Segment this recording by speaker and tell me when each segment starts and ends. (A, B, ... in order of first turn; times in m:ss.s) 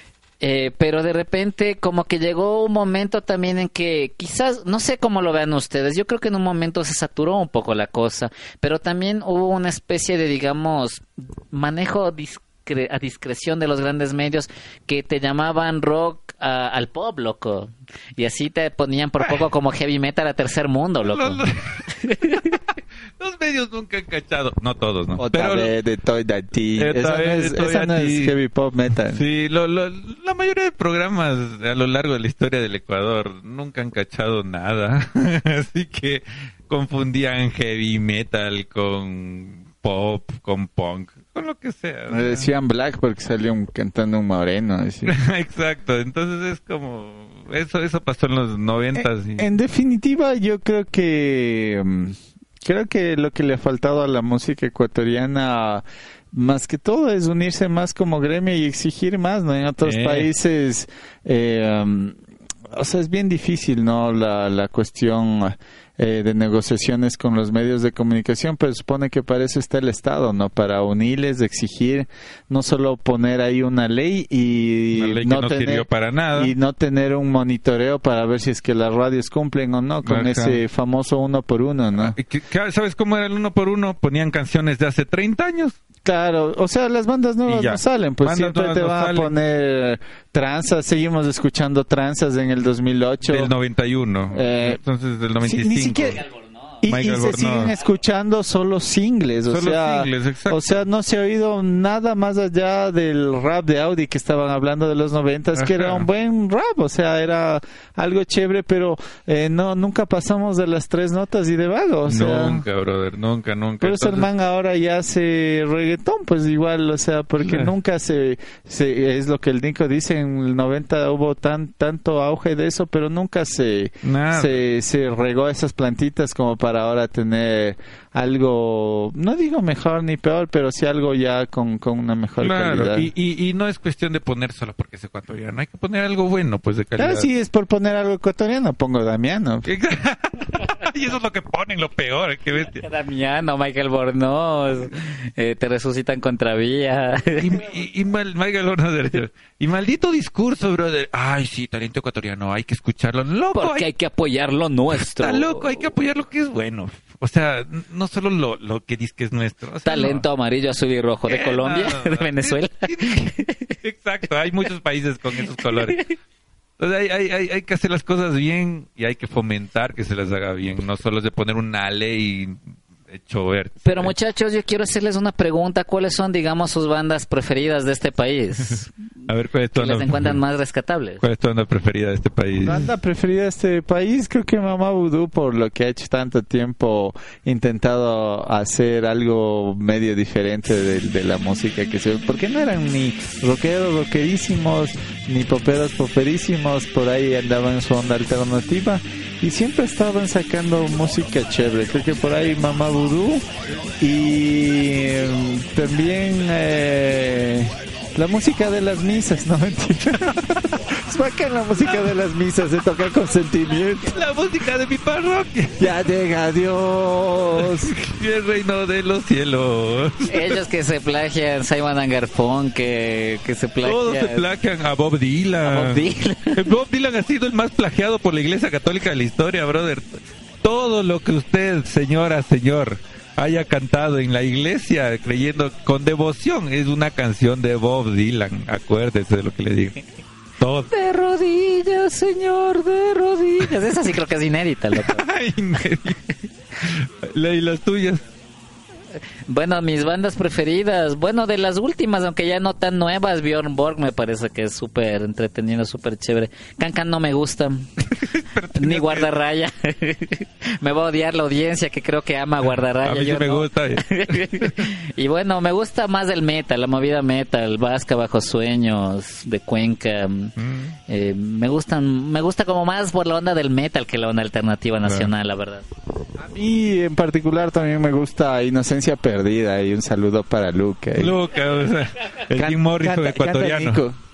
0:00.4-0:21.4 A
0:21.0-0:22.6 B
0:22.0-0:22.5 A
0:23.2-0:25.7 B
0:25.2-0:29.2 C
0:26.8-0:28.3 B
0:29.1-0:42.5 B
0:42.1-0:45.1 C
0:45.0-0:49.5 B
0:48.9-1:02.2 C
0:59.8-1:00.3 B
1:02.7-1:22.2 C
1:14.9-1:16.5 B
1:20.0-1:20.6 B
1:22.0-1:25.8 B
1:26.0-1:33.5 C
1:27.4-1:29.3 B
1:33.2-1:36.2 B
1:34.3-1:34.8 C
1:35.4-1:36.2 C
1:36.1-1:36.8 A
1:36.8-1:52.6 C
1:36.8-1:37.7 B
1:39.5-1:40.8 B
1:45.5-1:46.1 B
1:52.1-1:54.3 B
1:53.8-2:13.1 C
1:57.4-1:57.7 B
2:04.0-2:04.6 B
2:12.4-2:17.3 B
2:17.0-2:19.7 C
2:19.6-2:22.8 B
2:22.7-2:27.6 A
2:27.4-2:33.8 B
2:33.5-2:35.8 A
2:34.9-2:40.2 B
2:39.8-2:43.7 A
2:41.3-2:46.1 B
2:45.7-2:46.0 A
2:46.8-2:52.6 B
2:53.1-2:54.1 B
2:53.8-2:58.9 A
2:59.3-3:00.4 B
2:59.7-3:01.2 A
3:01.2-3:02.9 B
3:02.6-3:23.4 C
3:24.0-3:34.2 C
3:34.1-3:35.9 B
3:35.8-3:37.9 C
3:37.6-3:40.6 B
3:40.3-3:44.4 A
3:43.8-4:00.0 B
3:45.6-3:46.7 A
4:00.6-4:00.9 B
4:00.9-4:05.2 A
4:04.9-4:08.2 B
4:09.5-4:17.9 A
4:18.1-4:19.3 B
4:18.7-4:30.5 A
4:23.0-4:24.9 B
4:30.6-4:31.0 B
4:31.1-4:35.9 A
4:35.0-4:35.3 B
4:36.4-4:41.4 C
4:41.1-4:44.0 B
4:42.5-4:44.2 C